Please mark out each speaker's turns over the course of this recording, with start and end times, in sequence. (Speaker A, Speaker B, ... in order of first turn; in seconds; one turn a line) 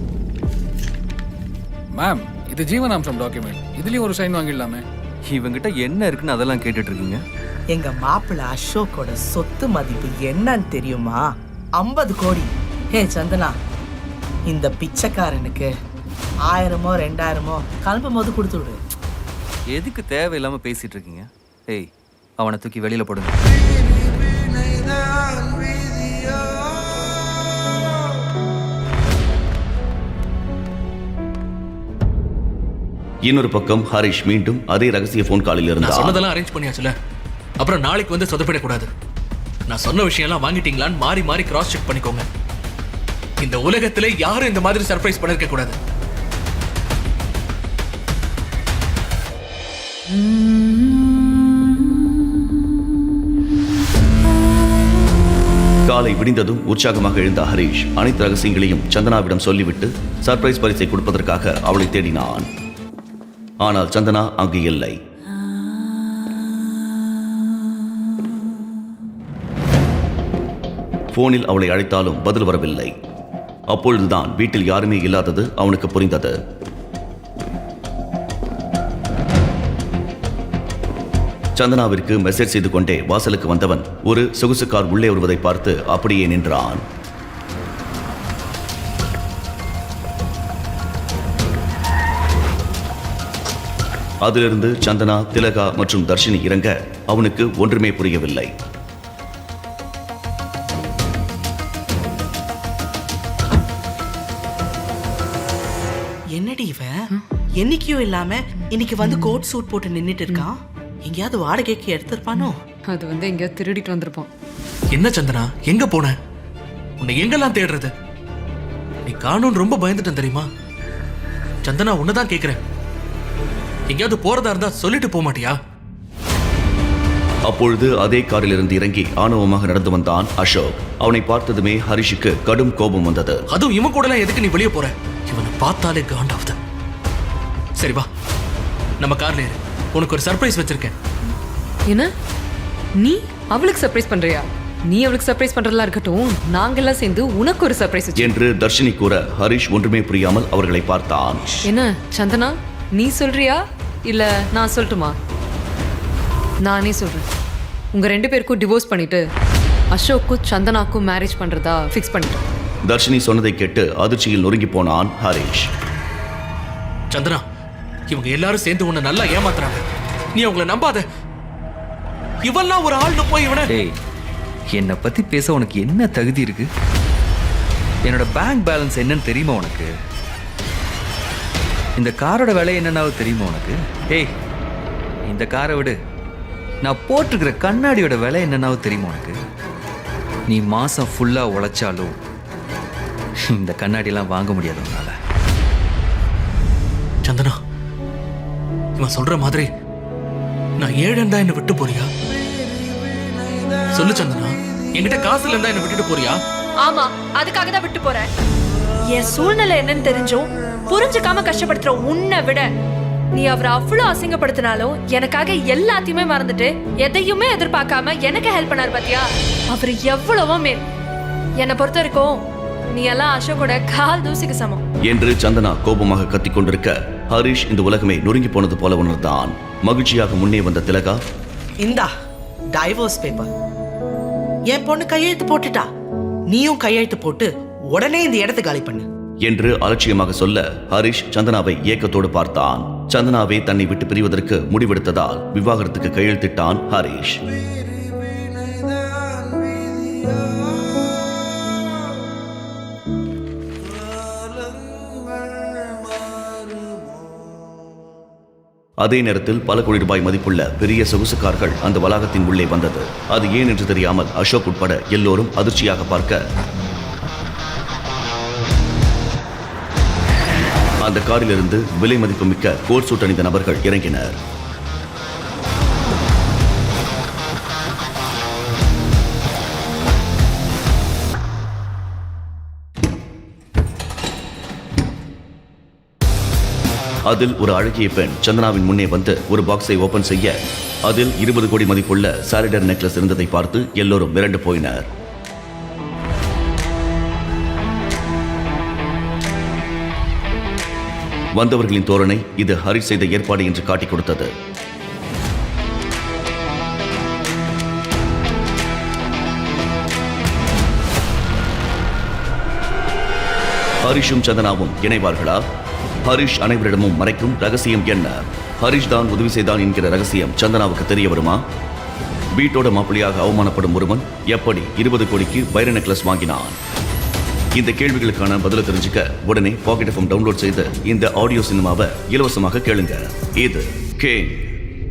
Speaker A: 1.9-4.8
Speaker B: 5.3-7.2
Speaker C: 7.7-11.2
Speaker C: 11.8-13.6
Speaker C: 14.5-15.7
Speaker C: 16.5-18.8
Speaker B: 19.7-21.9
Speaker B: 22.4-23.4
Speaker D: 33.2-36.2
Speaker E: 35.8-36.9
Speaker E: 37.6-38.9
Speaker E: 39.7-42.2
Speaker E: 43.4-45.8
Speaker D: 55.9-62.5
Speaker D: 63.6-65.0
Speaker D: 71.1-72.9
Speaker D: 73.7-76.3
Speaker D: 81.6-86.8
Speaker D: 94.2-98.5
Speaker C: 106.3-106.9
Speaker C: 107.6-112.6
Speaker F: 109.0-109.4
Speaker F: 112.9-114.3
Speaker E: 114.9-116.1
Speaker E: 117.0-117.9
Speaker E: 119.0-120.5
Speaker E: 121.6-122.6
Speaker E: 123.9-125.5
Speaker D: 127.5-133.4
Speaker E: 133.5-136.6
Speaker E: 137.8-138.1
Speaker E: 139.0-140.9
Speaker F: 143.0-148.3
Speaker D: 148.2-151.4
Speaker F: 151.6-155.2
Speaker F: 156.6-157.2
Speaker F: 157.9-159.2
Speaker F: 159.9-162.4
Speaker D: 162.8-165.7
Speaker E: 167.1-167.4
Speaker E: 168.1-171.0
Speaker E: 172.4-173.7
Speaker B: 173.7-173.9
Speaker B: 174.7-176.7
Speaker B: 178.0-179.9
Speaker B: 182.0-184.3
Speaker B: 185.2-186.0
Speaker B: 186.8-189.3
Speaker B: 190.5-192.2
Speaker B: 193.5-195.1
Speaker E: 197.2-197.6
Speaker E: 199.0-199.7
Speaker E: 200.8-202.1
Speaker E: 203.9-206.4
Speaker G: 206.8-208.3
Speaker G: 209.1-212.7
Speaker G: 213.3-220.8
Speaker G: 221.6-222.4
Speaker G: 222.9-224.8
Speaker D: 225.1-231.2
Speaker C: 231.8-232.1
Speaker C: 232.8-233.5
Speaker C: 234.7-235.8
Speaker C: 236.5-239.1
Speaker D: 239.4-247.4
Speaker D: 259.0-266.4
Speaker D: 271.0-274.4
Speaker D: 287.3-290.5
Speaker D: 291.1-295.1
Speaker D: 301.6-304.5
Speaker D: 314.0-315.6
Speaker D: 316.2-321.6
Speaker D: 322.6-326.8
Speaker D: 327.8-334.7